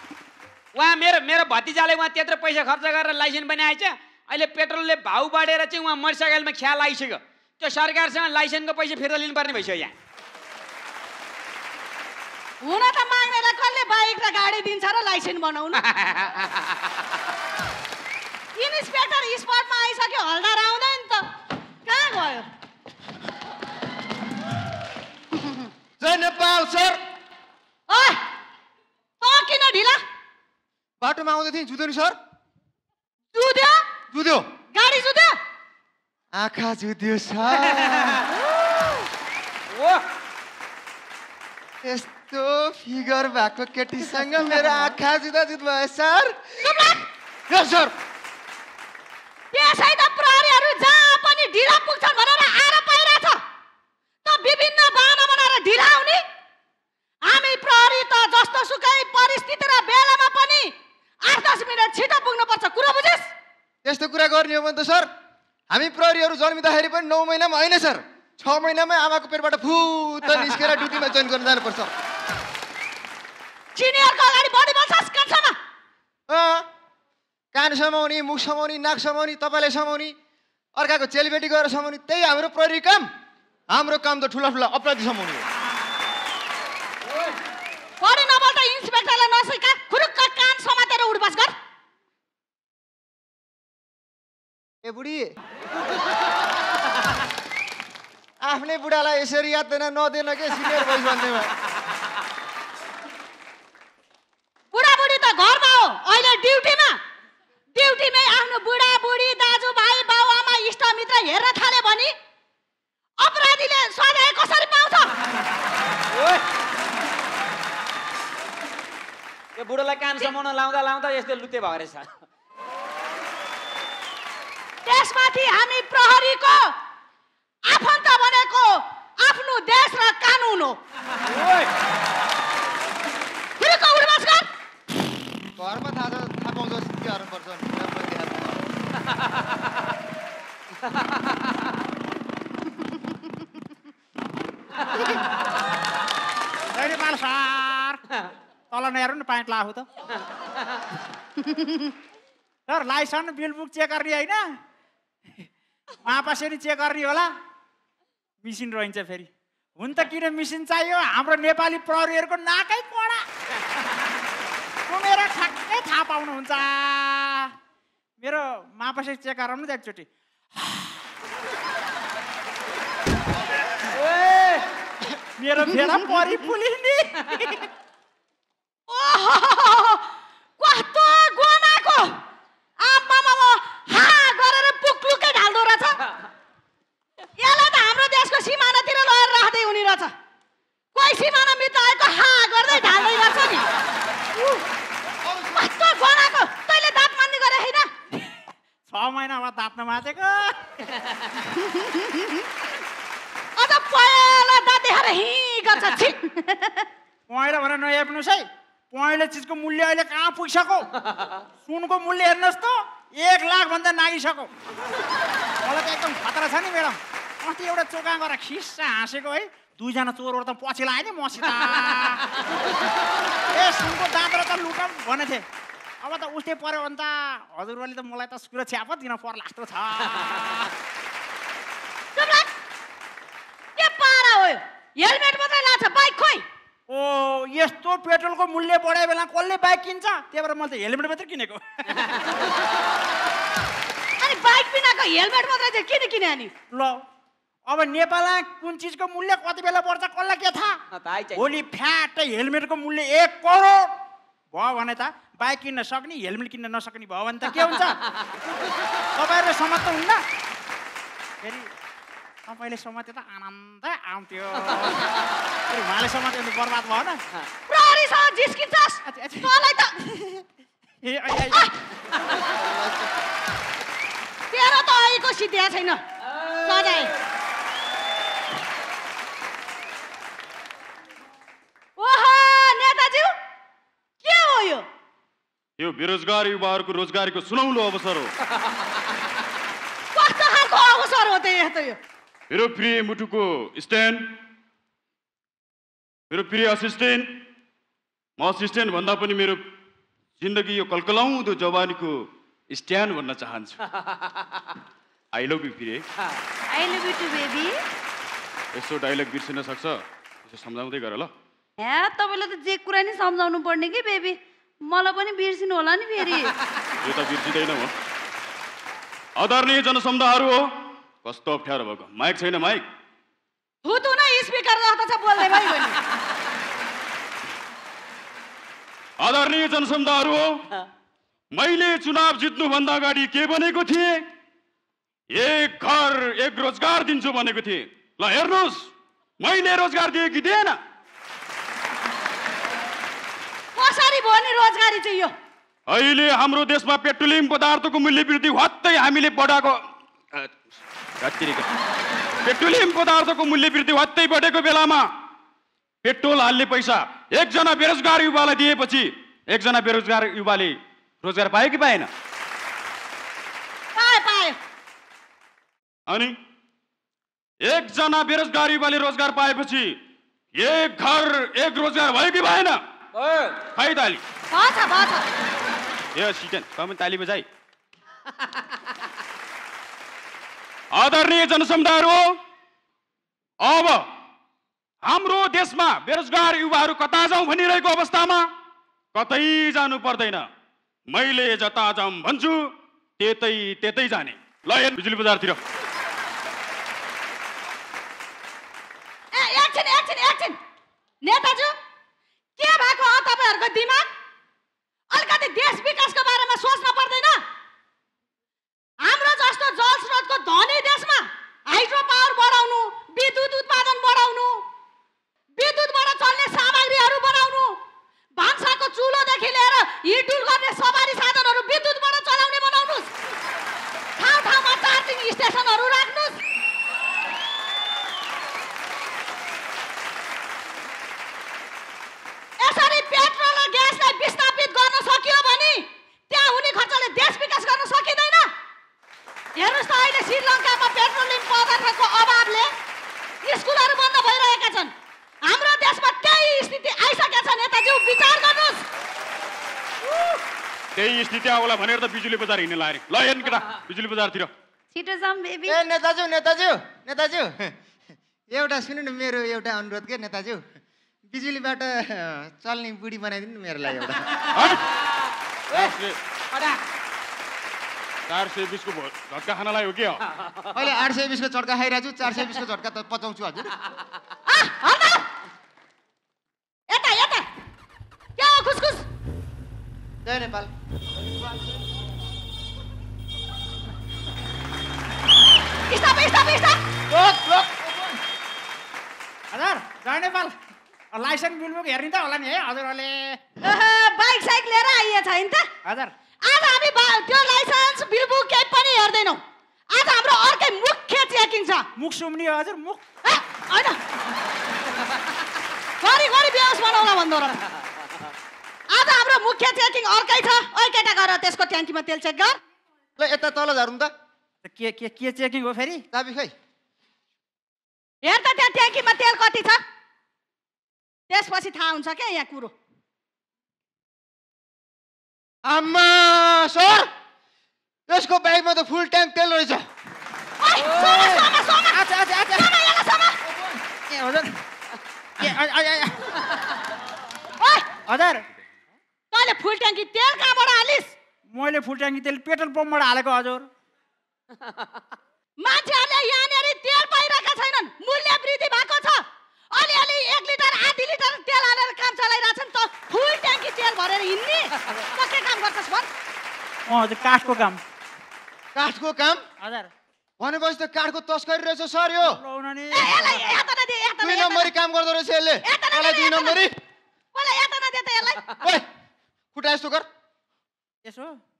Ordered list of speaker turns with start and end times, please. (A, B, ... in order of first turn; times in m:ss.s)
0:00.7-0:09.9 A
0:12.6-0:15.8 B
0:15.7-0:16.6 A
0:18.6-0:21.2 B
0:21.8-0:22.4 B
0:26.0-0:27.0 C
0:27.9-0:28.2 B
0:29.2-0:30.0 B
0:31.0-0:32.2 C
0:33.3-0:33.9 B
0:34.1-0:34.5 C
0:34.7-0:35.4 B
0:36.4-0:38.2 C
0:39.7-0:40.0 A
0:41.8-0:46.5 C
0:46.6-0:47.0 B
0:47.5-0:47.9 C
0:49.5-0:53.4 B
0:54.2-0:56.2 B
0:57.3-1:00.7 B
1:01.2-1:03.3 B
1:03.8-1:05.1 C
1:05.7-1:11.9 C
1:13.8-1:15.6 B
1:16.3-1:16.6 C
1:17.5-1:20.1 C
1:20.7-1:23.1 C
1:23.7-1:25.4 C
1:28.0-1:31.5 B
1:34.8-1:35.3 C
1:38.4-1:41.5 C
1:44.7-1:47.0 B
1:47.7-1:52.1 B
1:53.2-1:55.1 B
1:56.2-1:56.4 A
1:59.6-2:02.1 A
2:04.8-2:06.7 B
2:07.7-2:10.8 B
2:11.3-2:11.7 A
2:13.6-2:14.5 B
2:15.6-2:18.6 C
2:26.7-2:28.0 D
2:28.7-2:29.8 D
2:32.7-2:34.4 D
2:36.0-2:37.3 D
2:38.4-2:43.2 D
2:44.9-2:47.5 D
2:48.2-2:51.0 D
2:54.0-2:54.6 A
2:55.4-2:57.6 D
2:58.9-3:00.0 B
3:00.6-3:02.2 B
3:02.8-3:06.0 B
3:07.4-3:10.1 B
3:10.9-3:13.6 B
3:15.2-3:15.5 C
3:15.5-3:17.9 B
3:18.9-3:20.6 D
3:23.6-3:26.7 B
3:27.3-3:30.9 D
3:31.6-3:34.5 D
3:35.6-3:42.2 D
3:43.5-3:45.4 D
3:46.0-3:50.7 D
3:52.2-3:52.5 B
3:53.8-3:56.4 B
3:56.9-4:02.0 D
4:04.2-4:06.5 B
4:06.7-4:07.0 D
4:07.7-4:10.8 D
4:10.9-4:11.5 A
4:11.3-4:13.9 D
4:14.5-4:18.0 D
4:19.2-4:20.2 D
4:21.4-4:21.7 D
4:22.5-4:25.1 D
4:25.7-4:27.2 D
4:27.7-4:29.9 B
4:29.0-4:30.4 D
4:31.0-4:31.6 D
4:32.5-4:33.1 C
4:34.5-4:36.0 B
4:36.6-4:37.1 B
4:42.0-4:43.3 B
4:44.2-4:44.8 B
4:45.8-4:48.3 E
4:50.1-4:52.0 B
4:52.5-4:54.3 E
4:56.3-4:57.3 E
4:58.4-4:59.6 E
5:00.4-5:03.8 E
5:05.3-5:06.0 E
5:06.7-5:07.7 F
5:08.7-5:11.3 E
5:11.8-5:16.5 F
5:17.0-5:17.9 E
5:19.4-5:20.6 E
5:21.2-5:22.8 E
5:23.8-5:26.0 B
5:29.2-5:30.5 E
5:31.5-5:34.2 E
5:35.3-5:38.9 E
5:39.4-5:40.8 E
5:43.8-5:45.3 B
5:45.9-5:49.8 E
5:51.2-5:51.7 E
5:52.4-5:55.0 E
5:56.0-6:02.1 E
6:04.0-6:04.6 B
6:06.1-6:06.3 E
6:07.6-6:10.0 E
6:10.5-6:12.8 E
6:13.2-6:13.6 A
6:13.6-6:14.2 E
6:14.5-6:15.2 B
6:16.1-6:17.4 E
6:20.9-6:22.2 E
6:23.6-6:24.0 E
6:25.0-6:28.4 E
6:29.1-6:30.5 E
6:31.1-6:32.7 E
6:33.2-6:35.6 E
6:39.3-6:40.6 B
6:41.2-6:41.8 B
6:42.6-6:44.1 B
6:45.1-6:47.4 B
6:49.0-6:54.6 B
6:55.6-6:57.8 B
6:58.4-7:03.1 B
7:04.2-7:06.4 B
7:12.6-7:18.5 B
7:19.6-7:22.7 B
7:23.4-7:24.9 B
7:25.5-7:28.8 B
7:30.9-7:34.5 E
7:34.9-7:35.8 F
7:35.7-7:37.7 C
7:38.5-7:40.7 C
7:41.3-7:44.4 C
7:44.5-7:44.8 E
7:45.7-7:46.2 E
7:46.5-7:46.8 A
7:48.3-7:50.2 E
7:50.7-7:53.7 C
7:54.5-7:55.2 B
7:56.9-7:57.4 B
7:58.4-7:59.0 B
8:00.2-8:00.7 C
8:05.9-8:06.8 B
8:07.1-8:08.2 C
8:09.5-8:10.5 D
8:11.1-8:13.4 D
8:13.6-8:15.7 B
8:15.8-8:16.1 D
8:16.4-8:19.4 B
8:19.9-8:21.8 B
8:22.0-8:23.1 D
8:23.2-8:24.0 B
8:26.0-8:27.6 B
8:28.9-8:32.6 B
8:33.2-8:34.1 C
8:34.6-8:36.0 D
8:36.1-8:36.5 C
8:38.2-8:39.8 B
8:41.3-8:42.7 B
8:45.6-8:47.1 C
8:48.1-8:49.9 C
8:50.6-8:53.4 B
8:50.9-8:52.7 D
8:53.4-8:53.8 C
8:54.1-8:54.6 D
8:55.4-8:56.2 D
8:57.6-8:57.9 B
8:58.1-8:58.4 D
8:59.3-9:01.1 B
9:01.5-9:03.7 D
9:05.6-9:09.2 B
9:09.7-9:16.1 B
9:16.9-9:17.8 D
9:18.7-9:19.4 C
9:19.6-9:19.9 D
9:20.4-9:22.4 C
9:22.2-9:23.4 D
9:22.9-9:24.7 B
9:24.2-9:26.8 C
9:25.6-9:26.6 B
9:27.3-9:28.4 B
9:28.6-9:28.8 C
9:29.5-9:30.1 C
9:31.0-9:31.4 D